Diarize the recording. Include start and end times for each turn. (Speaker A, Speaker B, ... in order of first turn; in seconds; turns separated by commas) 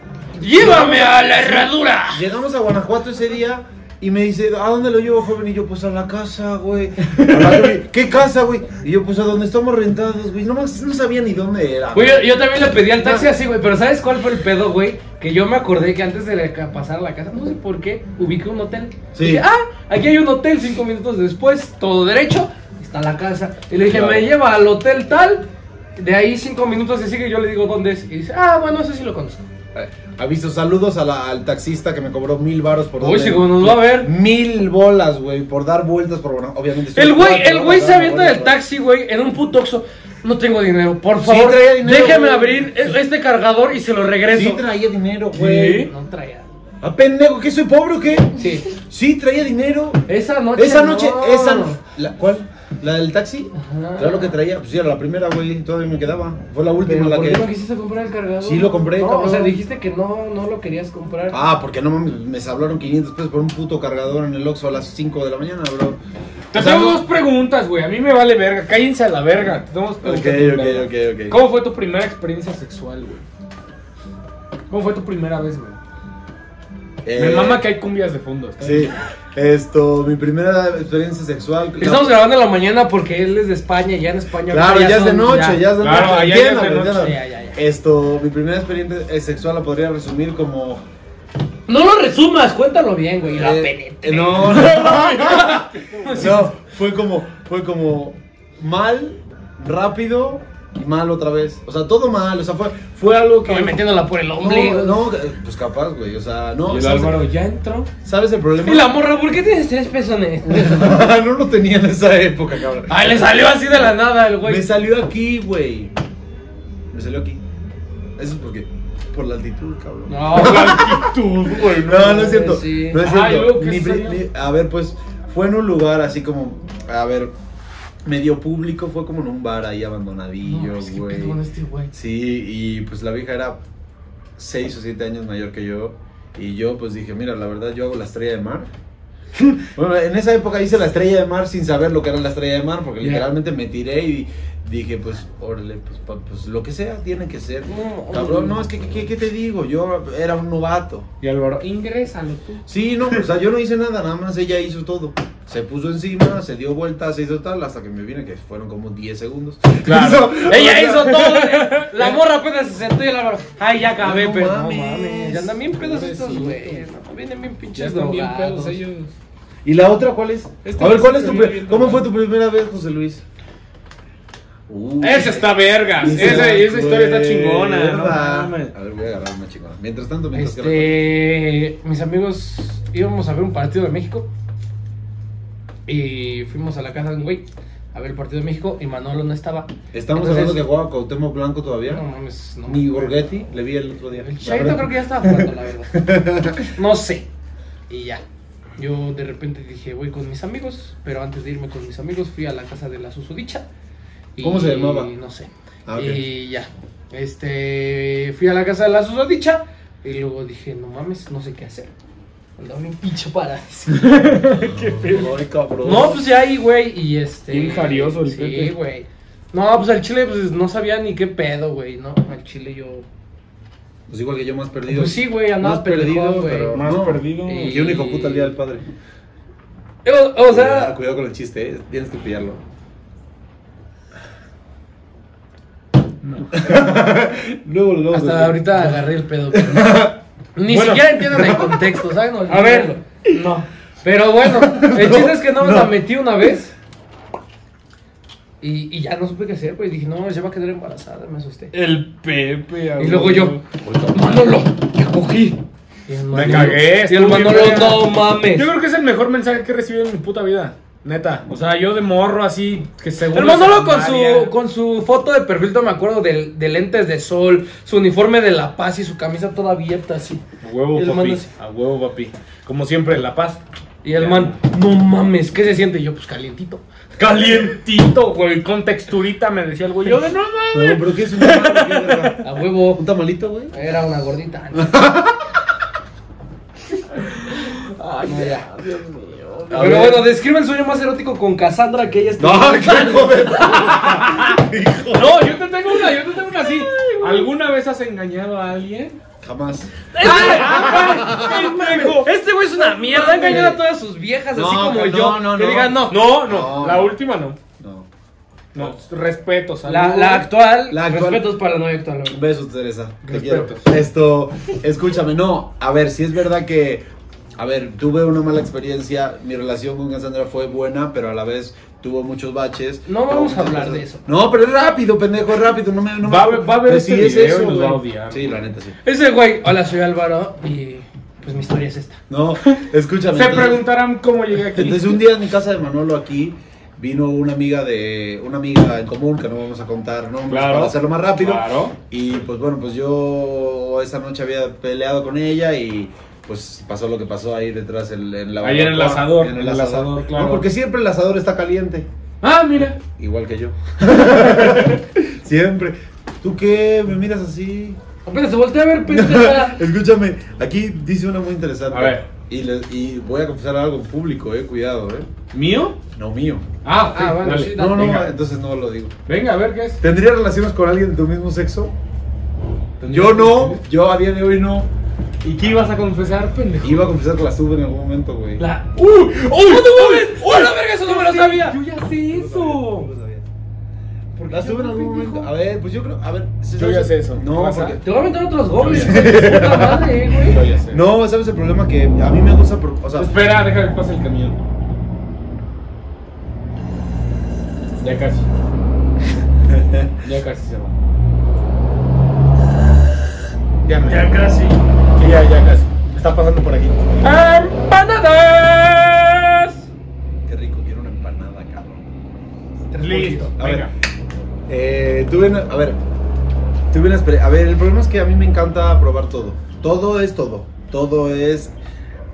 Speaker A: 0.4-2.3, Speaker B: 0.4-13.3, Speaker C: 7.2-7.6, Speaker A: 11.9-29.5, Speaker B: 19.1-19.4, Speaker B: 23.9-24.3, Speaker B: 29.8-38.6, Speaker A: 33.0-34.1, Speaker A: 37.0-44.6, Speaker B: 41.2-42.9, Speaker B: 44.3-45.9, Speaker C: 45.3-45.9, Speaker A: 45.7-46.5, Speaker B: 46.8-50.0, Speaker A: 48.4-48.7, Speaker A: 50.1-51.8, Speaker B: 50.6-57.5, Speaker A: 53.6-54.4, Speaker A: 56.8-61.4, Speaker B: 58.4-59.6, Speaker B: 61.3-66.0, Speaker B: 66.5-67.0, Speaker C: 66.5-73.3, Speaker B: 70.0-71.4, Speaker C: 74.7-75.8, Speaker B: 77.0-77.6, Speaker C: 77.2-79.0, Speaker B: 78.6-82.2, Speaker A: 81.8-85.9, Speaker B: 84.5-90.8, Speaker C: 85.8-87.2, Speaker A: 86.9-87.6, Speaker A: 91.7-96.5, Speaker B: 93.3-103.8, Speaker C: 94.9-96.1, Speaker A: 103.5-105.1, Speaker B: 104.4-107.2, Speaker C: 106.7-107.9, Speaker B: 108.0-109.0, Speaker A: 108.6-111.1, Speaker B: 110.5-113.2, Speaker A: 112.9-114.7, Speaker B: 114.4-115.9, Speaker B: 116.9-117.4, Speaker B: 118.2-127.3, Speaker A: 120.1-120.8, Speaker C: 120.3-122.3, Speaker A: 121.9-123.0, Speaker C: 123.0-124.2, Speaker B: 128.1-131.4, Speaker A: 130.4-131.9, Speaker B: 131.9-133.6, Speaker B: 134.4-138.7, Speaker B: 139.5-151.1, Speaker A: 147.7-148.7, Speaker C: 151.2-152.7, Speaker B: 152.7-161.3, Speaker C: 159.8-160.4, Speaker A: 160.4-168.8, Speaker C: 161.1-162.2, Speaker B: 164.0-165.7, Speaker C: 165.8-166.9, Speaker C: 167.8-169.1, Speaker B: 169.7-173.2, Speaker C: 170.6-172.1, Speaker B: 174.7-181.0, Speaker C: 175.0-178.7, Speaker A: 180.3-184.3, Speaker A: 185.9-190.7, Speaker B: 189.9-192.0, Speaker A: 191.9-193.5, Speaker B: 192.7-196.7, Speaker A: 194.2-197.3, Speaker A: 197.9-198.2, Speaker A: 198.8-203.7, Speaker A: 204.3-211.9, Speaker B: 204.4-205.1, Speaker B: 205.9-206.2, Speaker A: 212.6-214.3, Speaker C: 213.9-215.3, Speaker B: 214.6-216.2, Speaker A: 215.8-223.1, Speaker C: 217.5-218.8, Speaker B: 224.1-228.8, Speaker A: 224.9-226.9, Speaker C: 226.7-227.9, Speaker A: 227.4-228.6, Speaker A: 230.1-230.9, Speaker B: 230.5-232.6, Speaker C: 236.2-236.7, Speaker B: 236.5-238.9, Speaker A: 238.1-243.0, Speaker B: 239.5-240.2, Speaker C: 240.7-241.6, Speaker B: 241.4-241.8, Speaker C: 242.5-243.7, Speaker A: 244.0-246.7, Speaker B: 244.5-245.9, Speaker A: 248.6-251.7, Speaker C: 251.7-253.6, Speaker A: 253.0-253.6, Speaker B: 253.8-254.4, Speaker A: 254.1-258.7, Speaker C: 256.3-264.5, Speaker A: 263.3-271.5, Speaker C: 270.6-274.6, Speaker A: 274.0-276.8, Speaker C: 277.2-282.4, Speaker B: 280.7-283.7, Speaker A: 282.4-283.0, Speaker A: 283.7-285.1, Speaker B: 284.7-285.4, Speaker C: 288.0-290.2, Speaker A: 288.1-288.8, Speaker A: 289.7-294.6, Speaker B: 289.7-290.3, Speaker B: 292.4-295.5, Speaker C: 295.1-299.2, Speaker A: 295.2-295.5, Speaker A: 296.6-297.5, Speaker B: 299.4-301.5, Speaker A: 300.1-306.4, Speaker C: 300.2-302.3, Speaker B: 303.2-303.8, Speaker B: 304.5-307.2, Speaker C: 306.1-307.6, Speaker B: 307.8-308.1, Speaker C: 308.7-310.5, Speaker A: 309.9-312.4, Speaker B: 310.9-311.5, Speaker B: 312.3-317.1, Speaker C: 313.2-313.9, Speaker B: 317.6-329.0, Speaker A: 323.1-324.2, Speaker C: 326.2-328.6, Speaker A: 329.0-332.2, Speaker B: 332.3-333.8, Speaker C: 333.3-335.3, Speaker B: 334.7-352.1, Speaker C: 340.5-341.9, Speaker C: 348.6-350.7, Speaker C: 352.4-353.0, Speaker B: 353.1-358.0, Speaker C: 354.2-355.0, Speaker A: 358.3-359.8, Speaker B: 359.1-365.3, Speaker C: 361.9-362.3, Speaker C: 365.5-366.0, Speaker B: 366.1-366.6, Speaker C: 366.8-368.3, Speaker A: 367.1-368.2, Speaker B: 367.7-369.1, Speaker C: 369.3-370.0, Speaker B: 370.0-371.9, Speaker C: 373.0-373.8, Speaker B: 373.1-374.9, Speaker C: 375.4-377.1, Speaker B: 376.8-378.6, Speaker C: 378.6-383.1, Speaker A: 379.5-381.8, Speaker B: 382.3-383.5, Speaker A: 384.4-385.5, Speaker B: 384.5-388.1, Speaker C: 386.8-388.0, Speaker A: 388.0-390.6, Speaker C: 388.8-389.8, Speaker B: 388.9-390.2, Speaker C: 390.4-391.1, Speaker B: 390.9-393.3, Speaker C: 393.2-394.6, Speaker C: 398.0-398.5, Speaker B: 399.7-400.2, Speaker C: 400.2-401.0, Speaker C: 403.9-404.6, Speaker B: 404.1-404.6, Speaker C: 405.2-405.9, Speaker B: 405.2-407.1, Speaker C: 407.2-409.7, Speaker B: 410.5-412.1, Speaker A: 412.9-413.5, Speaker C: 413.0-413.9, Speaker B: 413.6-413.9, Speaker B: 414.7-416.0, Speaker B: 416.9-421.8